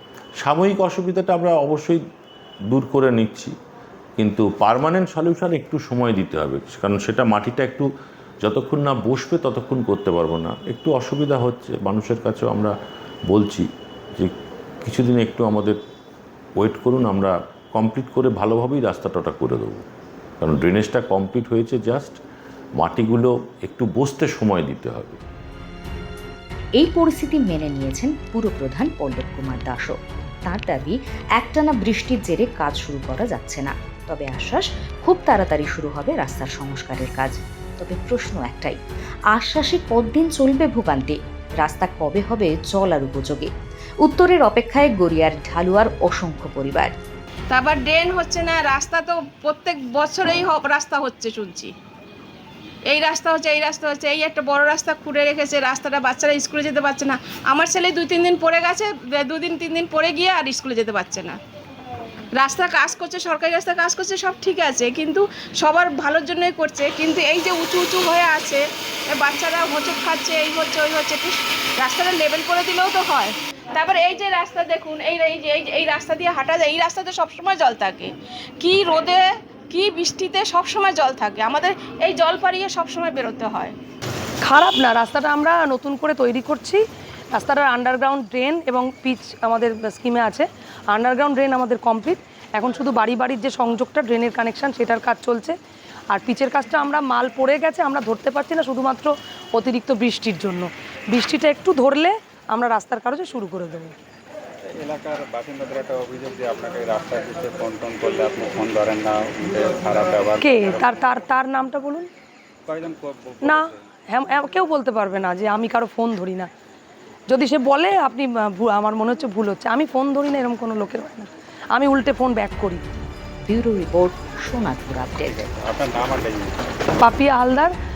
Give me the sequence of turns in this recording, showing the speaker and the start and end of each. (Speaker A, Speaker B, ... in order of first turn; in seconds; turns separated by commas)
Speaker A: 0.4-2.0, Speaker A: 2.7-3.5, Speaker A: 4.2-7.8, Speaker A: 8.4-12.7, Speaker A: 13.3-13.7, Speaker A: 14.8-15.8, Speaker A: 16.6-19.8, Speaker A: 20.4-22.2, Speaker A: 22.8-25.2, Speaker B: 26.8-29.9, Speaker B: 30.4-38.8, Speaker B: 39.3-43.5, Speaker B: 44.0-46.9, Speaker C: 47.5-51.7, Speaker C: 52.9-61.4, Speaker C: 62.4-68.6, Speaker C: 69.1-83.7, Speaker D: 84.4-86.8, Speaker D: 87.3-95.5, Speaker D: 96.1-103.9, Speaker E: 104.7-110.9, Speaker D: 110.4-112.1, Speaker E: 112.7-113.6, Speaker D: 113.4-116.5, Speaker D: 117.3-122.8, Speaker B: 123.5-125.5, Speaker E: 125.3-126.5, Speaker D: 127.0-127.7